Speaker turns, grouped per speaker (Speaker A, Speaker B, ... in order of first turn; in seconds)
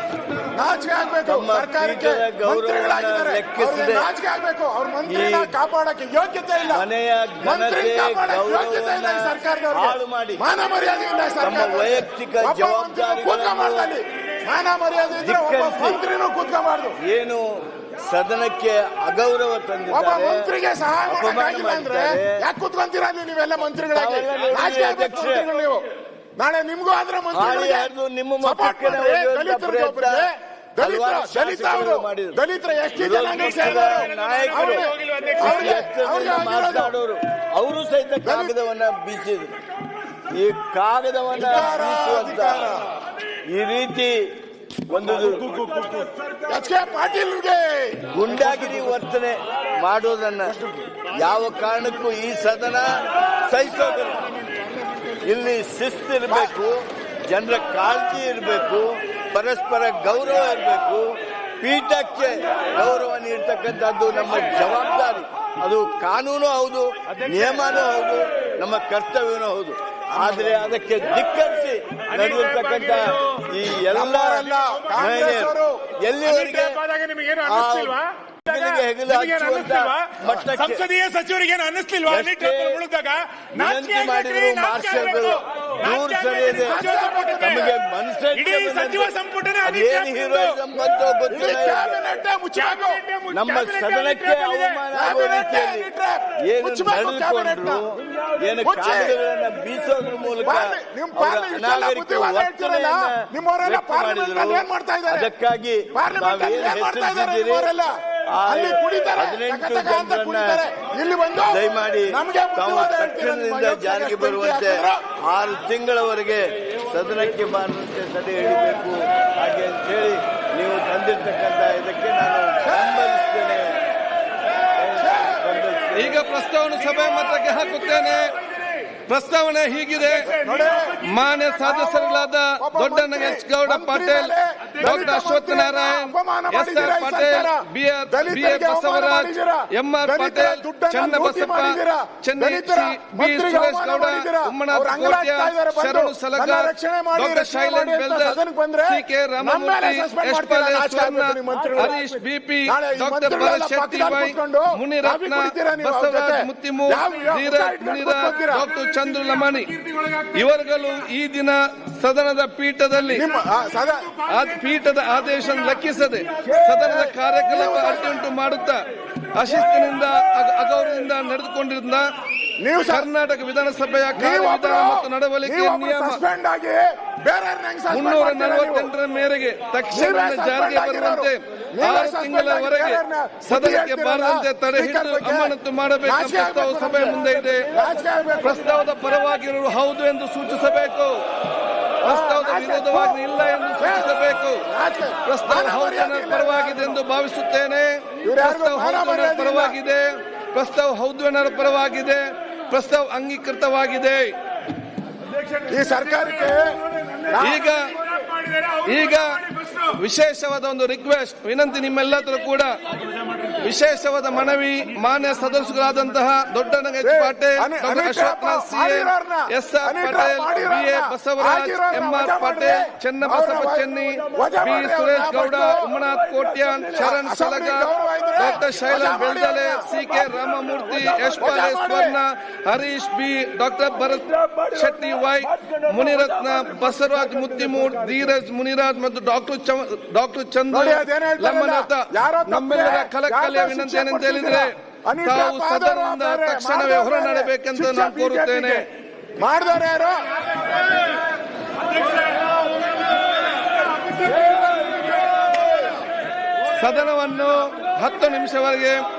Speaker A: 0.5-6.8, 7.4-17.0, 19.9-25.8, 26.4-36.9, 38.2-38.6, 41.4-42.8, 46.4-48.1, 73.9-75.8, 86.6-87.7, 91.3-93.0, 94.9-97.8, 98.6-99.2, 100.4-105.3, 105.9-107.9, 108.4-115.0, 122.7-122.9, 125.0-125.3, 130.2-131.0, 131.6-152.0, 152.7-158.7, 163.1-164.2, 166.4-168.2, 172.6-173.1, 174.2-178.9, 179.9-187.2, 187.7-188.8, 192.0-193.2, 193.8-197.0, 198.2-199.8, 205.6-207.7, 217.0-225.9, 227.0-229.9, 230.9-232.2, 240.7-248.8, 249.4-250.2, 254.4-254.8
Speaker B: 1.2-4.1, 5.1-5.5, 6.7-10.4, 11.4-13.9, 15.2-16.0, 17.0-17.4, 18.0-20.5, 21.1-22.4, 23.9-25.4, 27.3-30.3, 30.8-32.4, 33.0-39.6, 40.3-42.8, 43.5-44.3, 44.9-45.7, 48.1-50.6, 51.1-54.3, 55.2-61.0, 61.6-76.8, 77.4-80.9, 82.0-82.8, 83.6-92.0, 93.3-95.9, 96.5-107.7, 108.3-110.6, 111.5-123.8, 124.8-126.2, 234.9-236.7
Speaker C: 33.6-35.4, 72.1-73.2, 74.7-75.1, 76.2-87.7, 88.3-90.5, 92.6-94.8, 208.1-208.8
Speaker D: 125.9-128.4, 129.1-130.3, 131.0-159.8, 160.3-163.2, 164.3-168.8, 169.3-172.1, 172.8-176.2, 177.9-187.7, 188.4-191.2, 192.0-194.6, 195.2-204.3, 207.4-208.0, 208.8-212.8, 213.6-248.8, 256.7-259.0